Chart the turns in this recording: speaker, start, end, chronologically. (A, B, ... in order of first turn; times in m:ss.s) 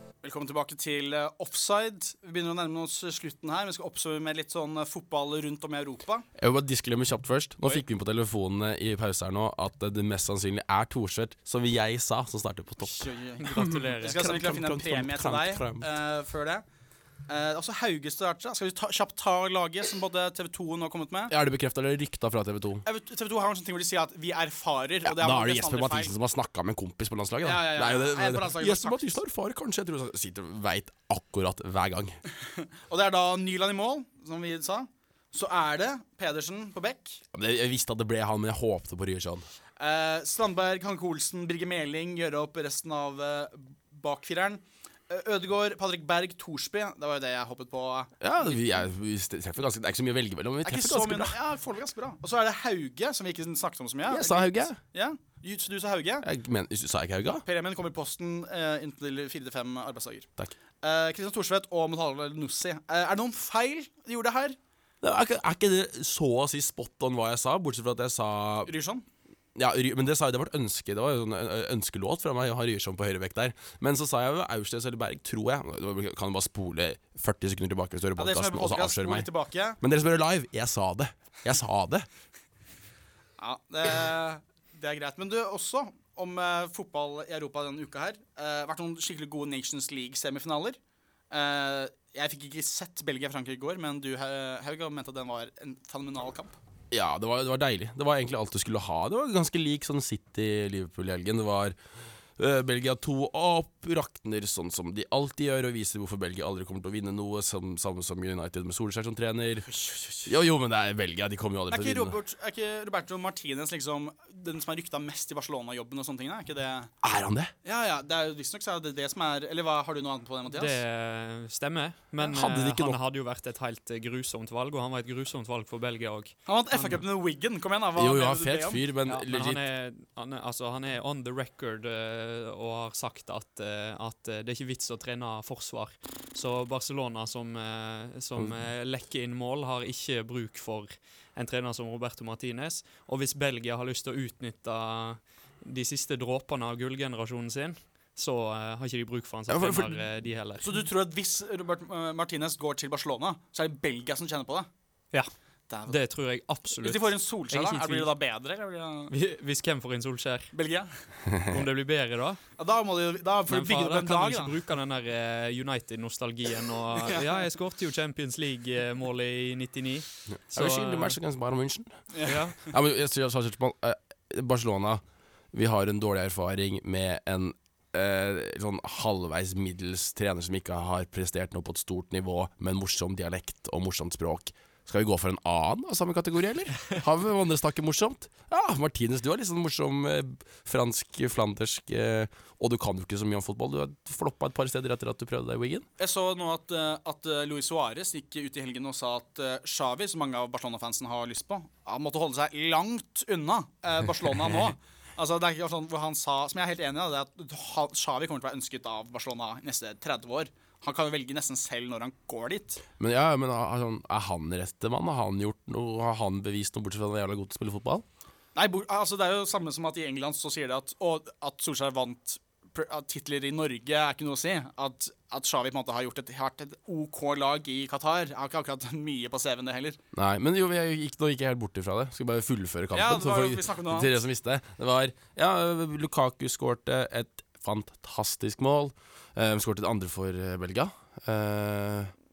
0:00.2-0:06.3 A
0:06.4-0:13.1 B
0:12.8-0:16.6 A
0:13.4-0:14.1 C
0:14.1-0:15.9 B
0:17.3-0:21.3 A
0:21.3-0:22.8 B
0:22.8-0:26.1 A
0:25.0-0:32.2 B
0:27.4-0:29.1 A
0:32.6-0:37.2 A
0:37.3-0:39.5 B
0:39.8-0:48.6 A
0:48.2-0:51.4 B
0:50.6-0:56.2 A
0:54.1-0:54.8 B
0:56.2-0:57.4 B
0:57.4-1:00.3 A
1:00.8-1:04.6 A
1:05.0-1:08.7 B
1:08.6-1:09.0 A
1:09.5-1:19.3 B
1:18.2-1:19.8 A
1:19.8-1:22.1 B
1:23.4-1:30.8 A
1:31.3-1:36.5 A
1:36.9-1:41.8 B
1:42.4-1:49.7 B
1:49.6-1:50.3 A
1:50.2-1:52.2 B
1:51.7-1:56.9 A
1:57.0-1:57.5 B
1:57.6-2:00.8 A
2:00.5-2:07.0 C
2:02.2-2:03.0 B
2:06.5-2:08.9 A
2:08.0-2:09.6 B
2:09.1-2:30.8 C
2:29.5-2:30.0 B
2:30.6-2:34.7 A
2:35.7-2:36.0 A
2:35.8-2:38.1 C
2:36.7-2:39.1 A
2:39.1-2:40.5 C
2:40.5-2:40.9 A
2:41.4-2:42.4 C
2:42.6-2:44.5 A
2:43.5-2:51.2 C
2:50.3-2:55.0 B
2:52.1-2:52.4 A
2:52.2-2:52.6 C
2:55.5-3:15.9 B
3:16.0-3:32.8 A
3:33.0-3:38.0 B
3:38.5-3:50.0 A
3:50.1-4:02.1 B
3:52.9-3:54.2 A